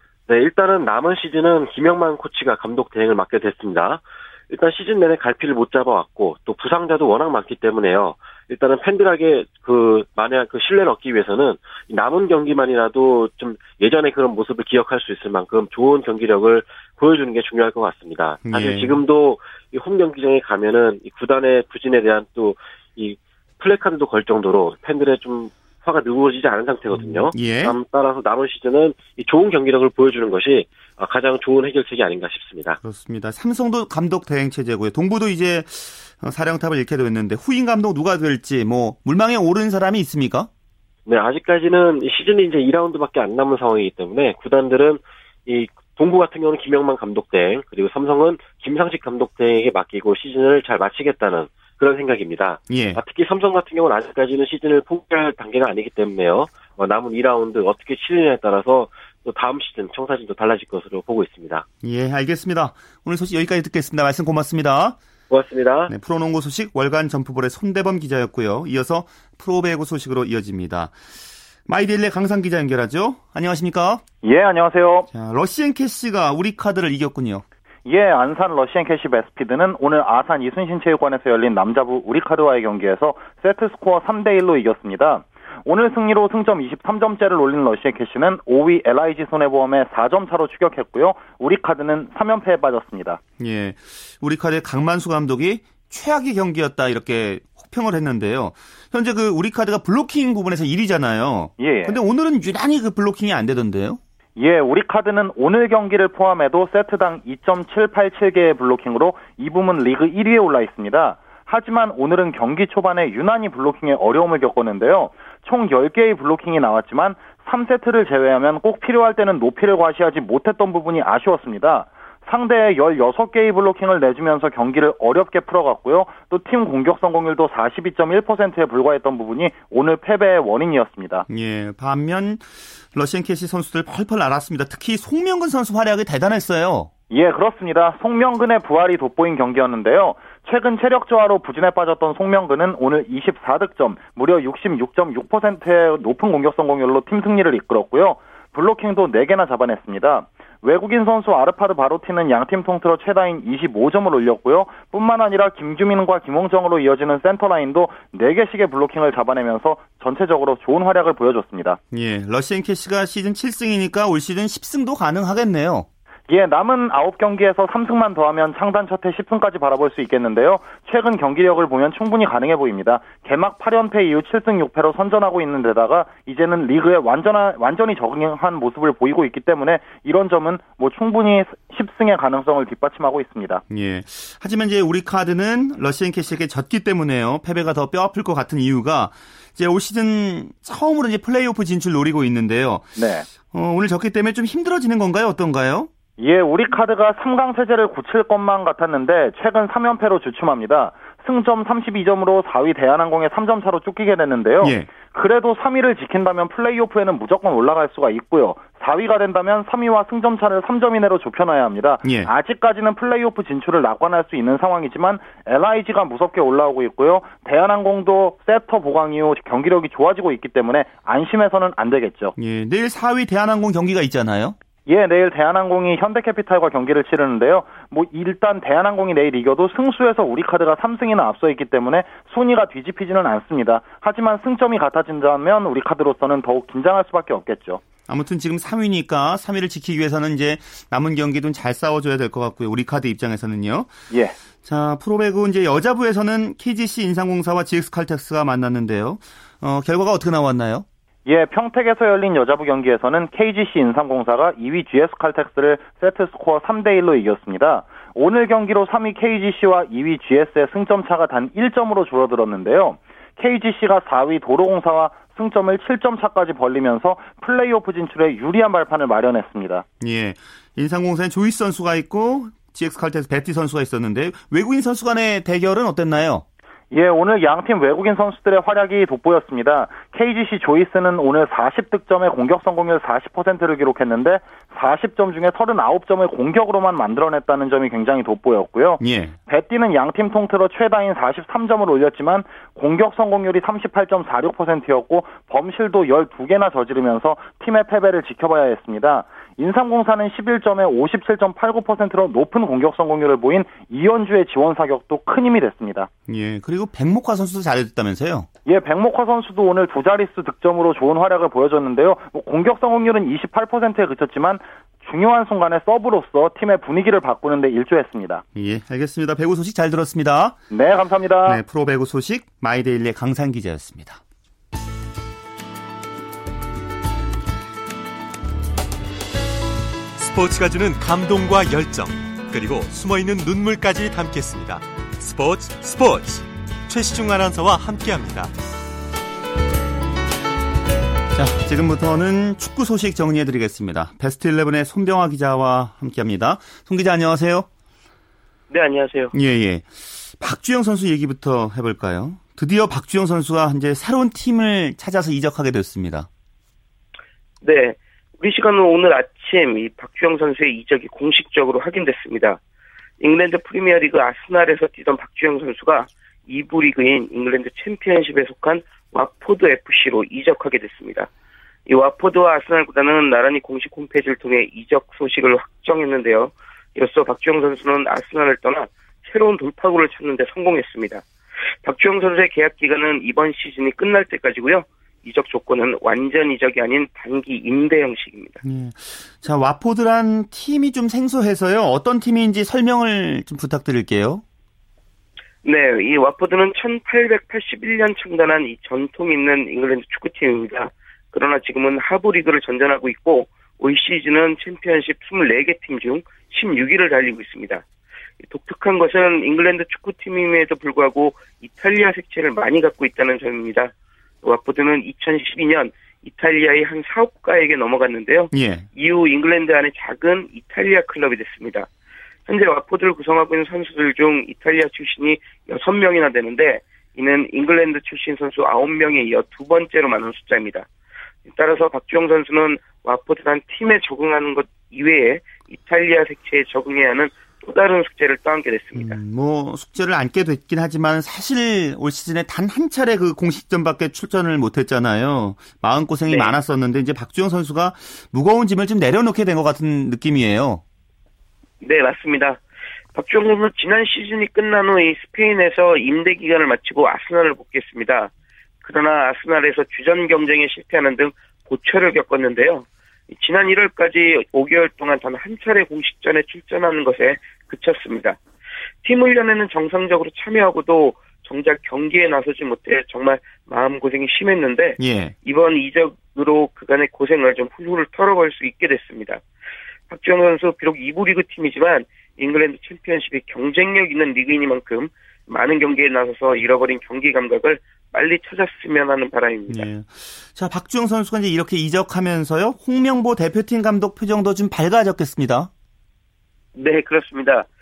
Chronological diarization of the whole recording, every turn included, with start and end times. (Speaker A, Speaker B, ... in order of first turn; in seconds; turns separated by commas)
Speaker A: 0.3-32.8, Speaker B: 18.4-19.0, Speaker B: 26.9-27.8, Speaker B: 32.8-40.5, Speaker A: 41.0-61.6, Speaker B: 52.7-53.0, Speaker B: 61.8-65.0, Speaker A: 65.3-65.9, Speaker B: 65.9-70.9, Speaker B: 71.7-74.0, Speaker C: 74.2-75.1, Speaker B: 75.1-77.4, Speaker C: 77.8-93.2, Speaker B: 93.4-104.0, Speaker C: 101.6-102.0, Speaker C: 104.4-131.2, Speaker B: 131.3-136.9, Speaker C: 137.1-161.8, Speaker B: 161.9-165.9, Speaker C: 166.3-183.6, Speaker B: 183.7-192.9, Speaker C: 192.9-193.2, Speaker B: 193.4-195.9, Speaker C: 196.2-222.3, Speaker B: 204.6-204.9, Speaker B: 212.0-212.3, Speaker B: 222.3-224.6, Speaker C: 224.9-237.8, Speaker B: 238.1-243.9, Speaker C: 244.1-244.3, Speaker B: 244.6-250.8, Speaker C: 251.2-269.8, Speaker B: 270.0-276.4, Speaker C: 276.9-306.1, Speaker B: 289.0-289.4, Speaker B: 306.3-308.5, Speaker C: 308.6-318.4, Speaker B: 318.5-320.6, Speaker C: 320.7-321.6, Speaker B: 321.4-324.2, Speaker D: 330.2-338.5, Speaker B: 341.3-347.7, Speaker E: 348.7-349.3, Speaker B: 349.3-356.3, Speaker E: 357.6-362.6, Speaker E: 363.2-371.3, Speaker E: 371.9-381.2, Speaker E: 381.8-388.6, Speaker B: 388.6-394.4, Speaker E: 395.6-407.8, Speaker E: 408.5-413.9, Speaker E: 414.4-421.9, Speaker B: 418.5-418.9, Speaker E: 422.4-430.9, Speaker E: 431.5-439.2, Speaker B: 438.9-450.8, Speaker E: 446.3-446.5, Speaker E: 451.8-452.6, Speaker E: 453.1-458.3, Speaker E: 458.8-468.4, Speaker E: 469.0-479.4, Speaker B: 475.0-475.3, Speaker E: 480.1-489.9, Speaker B: 489.7-495.7, Speaker E: 496.7-497.7